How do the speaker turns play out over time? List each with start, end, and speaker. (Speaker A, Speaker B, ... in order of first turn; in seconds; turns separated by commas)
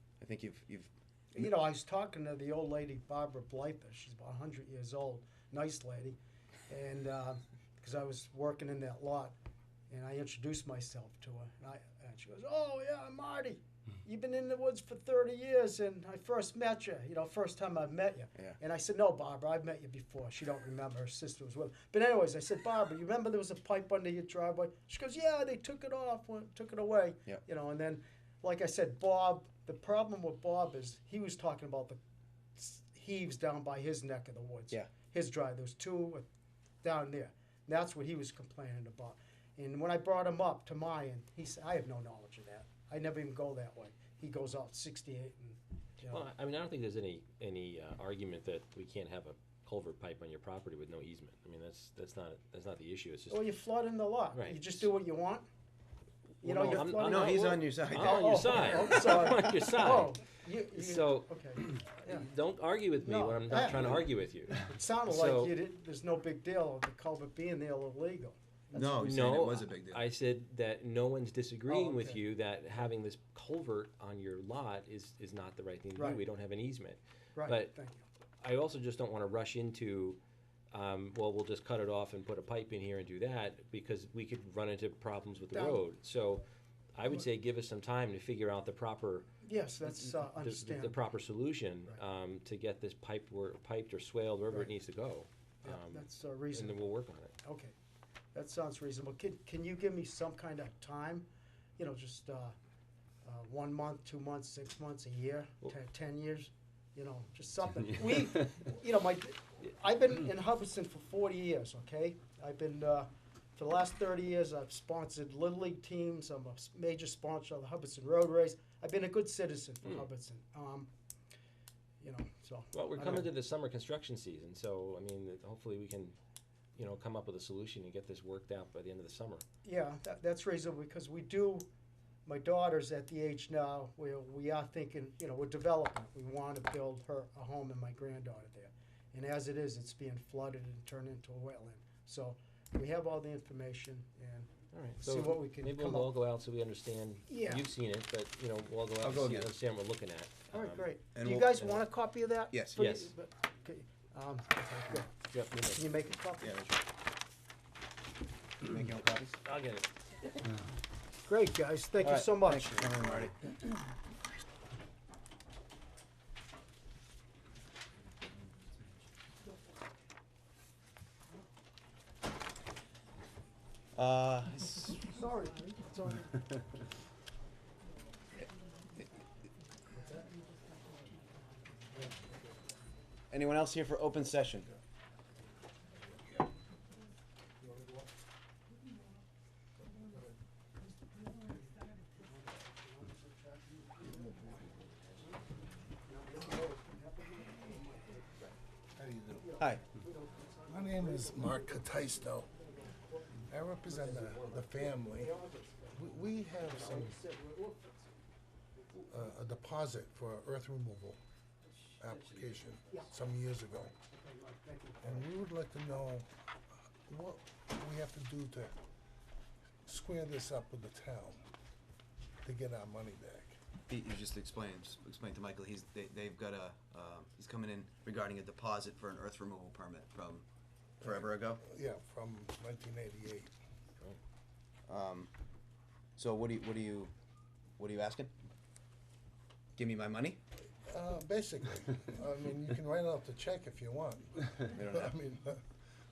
Speaker A: 0.2-0.9, Speaker B: 1.3-9.3, Speaker B: 9.9-32.0, Speaker B: 32.5-36.3, Speaker B: 36.8-46.2, Speaker C: 46.1-53.5, Speaker B: 53.3-55.5, Speaker C: 54.3-54.6, Speaker C: 56.4-60.1, Speaker B: 56.4-62.2, Speaker A: 56.6-58.8, Speaker C: 60.7-65.5, Speaker B: 63.0-69.0, Speaker A: 68.7-70.1, Speaker C: 69.0-77.7, Speaker B: 71.7-72.2, Speaker B: 75.9-76.2, Speaker B: 77.3-78.0, Speaker C: 78.4-80.2, Speaker C: 80.7-86.4, Speaker B: 85.5-85.8, Speaker C: 86.9-89.3, Speaker B: 89.4-91.1, Speaker C: 89.8-97.3, Speaker B: 95.6-96.9, Speaker B: 97.4-97.7, Speaker B: 98.3-102.5, Speaker B: 103.2-120.9, Speaker B: 122.0-123.3, Speaker C: 122.7-126.2, Speaker C: 126.8-129.4, Speaker B: 129.6-131.7, Speaker B: 132.2-146.2, Speaker C: 144.7-150.9, Speaker B: 147.3-147.7, Speaker A: 149.0-149.5, Speaker B: 150.5-155.1, Speaker A: 151.1-151.8, Speaker A: 152.5-152.8, Speaker C: 152.8-153.1, Speaker C: 155.3-155.9, Speaker B: 155.6-156.7, Speaker A: 156.4-156.7, Speaker A: 158.6-159.3, Speaker C: 159.4-159.9, Speaker B: 161.2-162.9, Speaker A: 162.0-163.4, Speaker A: 173.9-175.1, Speaker B: 175.1-176.3, Speaker A: 183.3-184.7, Speaker B: 192.1-194.7, Speaker B: 196.0-198.5, Speaker D: 199.0-199.3, Speaker B: 199.3-208.1, Speaker A: 199.6-199.8, Speaker D: 200.7-202.5, Speaker D: 203.5-205.3, Speaker D: 205.9-207.2, Speaker B: 208.7-209.6, Speaker D: 209.1-211.2, Speaker D: 212.0-213.9, Speaker B: 214.0-215.3, Speaker D: 215.0-216.3, Speaker D: 217.1-218.7, Speaker D: 219.8-221.4, Speaker D: 222.4-223.6, Speaker A: 223.9-230.4, Speaker A: 231.0-231.6, Speaker D: 231.0-233.5, Speaker A: 234.9-235.3, Speaker A: 236.2-237.1, Speaker A: 237.8-238.3, Speaker A: 239.8-240.4, Speaker D: 240.8-245.6, Speaker A: 244.7-245.1